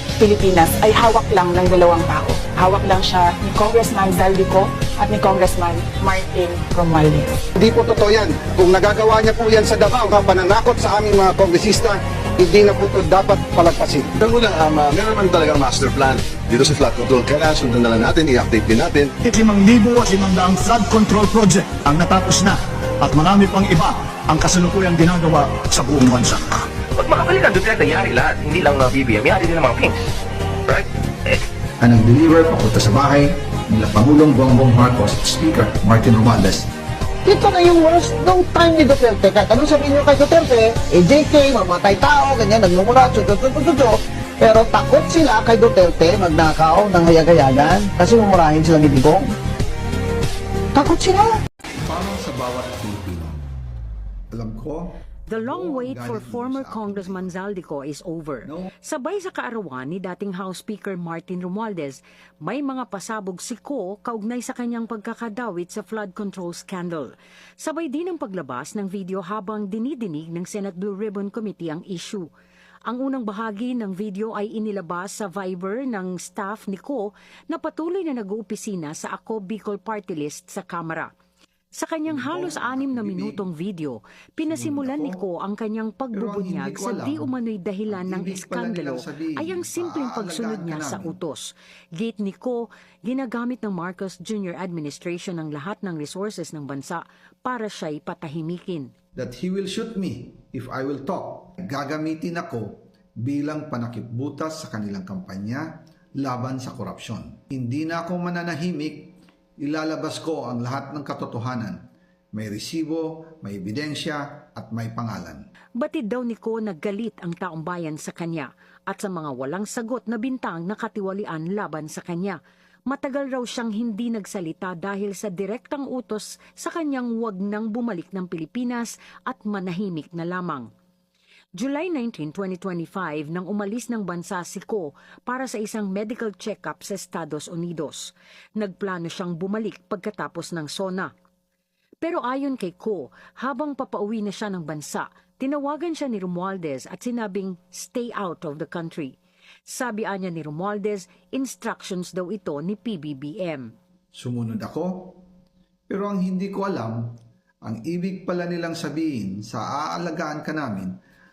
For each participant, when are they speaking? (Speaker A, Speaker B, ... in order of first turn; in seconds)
Speaker A: 0.2-7.3
Speaker B: 7.5-14.2
Speaker C: 14.2-19.1
Speaker D: 19.2-26.6
Speaker E: 26.9-30.0, 30.7-31.4
Speaker F: 31.8-36.7, 51.8-53.4, 54.3-57.3, 58.4-58.7, 82.1-83.4, 84.5-85.2, 86.1-87.3, 87.9-91.2, 99.2-105.7, 106.2-111.8, 112.3-115.4, 154.1-155.2, 155.9-157.1, 157.6-160.9
Speaker G: 37.2-49.3, 50.7-51.4
Speaker H: 55.3-72.3, 72.9-81.1, 81.7-98.9, 115.8-130.7, 131.6-141.1, 142.0-149.2, 149.7-153.7